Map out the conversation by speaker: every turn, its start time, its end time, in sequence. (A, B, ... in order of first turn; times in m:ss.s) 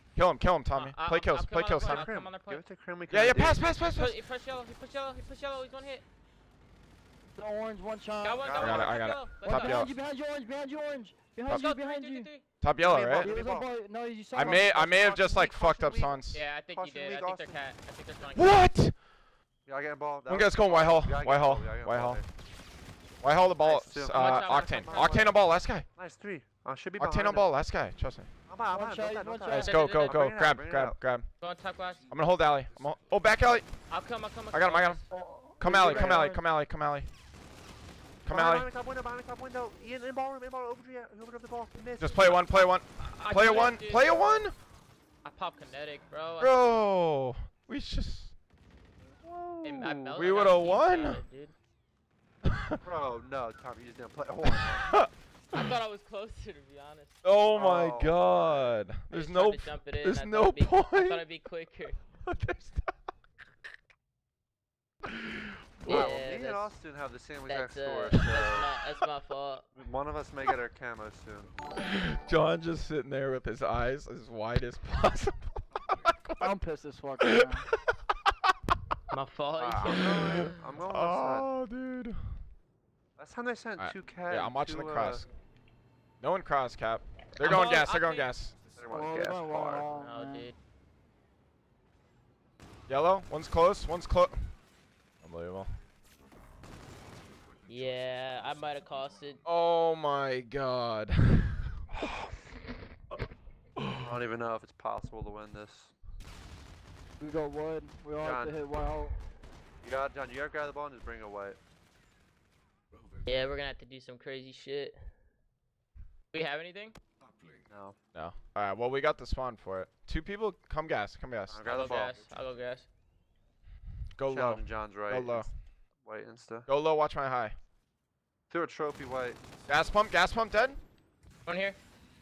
0:00.1-0:02.1 A
0:00.7-0:02.6 B
0:01.8-0:03.7 C
0:03.1-0:04.1 A
0:03.9-0:06.0 B
0:07.3-0:08.6 D
0:08.2-0:09.8 B
0:08.4-0:08.9 C
0:08.6-0:09.9 A
0:09.4-0:12.3 D
0:11.4-0:12.4 B
0:12.6-0:13.3 A
0:12.8-0:13.7 C
0:13.2-0:14.7 D
0:14.3-0:16.4 A
0:14.4-0:17.6 C
0:16.3-0:18.6 B
0:18.3-0:19.0 A
0:19.6-0:22.3 C
0:20.3-0:22.2 A
0:23.2-0:25.9 A
0:23.6-0:27.5 C
0:24.1-0:25.2 B
0:27.0-0:28.3 A
0:28.5-0:31.0 C
0:28.7-0:29.7 D
0:29.5-0:30.2 B
0:29.5-0:31.3 A
0:31.4-0:32.1 B
0:32.1-0:33.7 A
0:33.9-0:35.0 B
0:34.5-0:35.0 A
0:35.1-0:36.4 D
0:35.6-0:37.1 A
0:38.2-0:38.7 A
0:38.3-0:42.6 C
0:42.0-0:44.6 A
0:43.0-0:44.5 B
0:45.2-0:46.6 B
0:46.4-0:48.3 A
0:49.2-0:51.2 A
0:49.6-0:51.5 B
0:52.4-0:52.8 A
0:52.8-0:55.0 C
0:54.5-0:55.7 A
0:55.5-0:57.2 B
0:57.2-1:01.3 A
0:57.5-0:58.2 C
0:59.1-1:02.0 B
1:02.2-1:02.9 A
1:05.8-1:06.0 A
1:05.8-1:06.8 B
1:05.8-1:08.7 C
1:07.5-1:09.6 B
1:09.7-1:11.6 C
1:11.8-1:16.6 A
1:16.4-1:17.7 D
1:17.2-1:18.3 A
1:19.1-1:20.5 B
1:19.6-1:21.5 C
1:20.1-1:22.4 A
1:23.2-1:25.2 C
1:23.8-1:25.3 A
1:26.2-1:28.6 A
1:27.4-1:28.3 B
1:28.7-1:29.9 C
1:28.9-1:30.5 D
1:30.0-1:30.5 B
1:32.9-1:34.5 A
1:35.2-1:35.7 A
1:37.7-1:39.4 B
1:39.4-1:41.8 A
1:43.8-1:44.0 A
1:44.0-1:45.9 C
1:47.2-1:49.2 D
1:48.2-1:48.6 C
1:49.8-1:51.6 C
1:53.2-1:55.0 B
1:56.3-1:57.0 B
1:57.7-1:58.0 C
1:58.1-2:01.6 A
2:01.5-2:02.2 C
2:01.6-2:02.9 B
2:04.2-2:05.5 A
2:04.3-2:05.5 C
2:06.0-2:06.7 C
2:06.7-2:07.6 A
2:08.5-2:09.4 C
2:09.7-2:10.8 A
2:11.4-2:11.8 B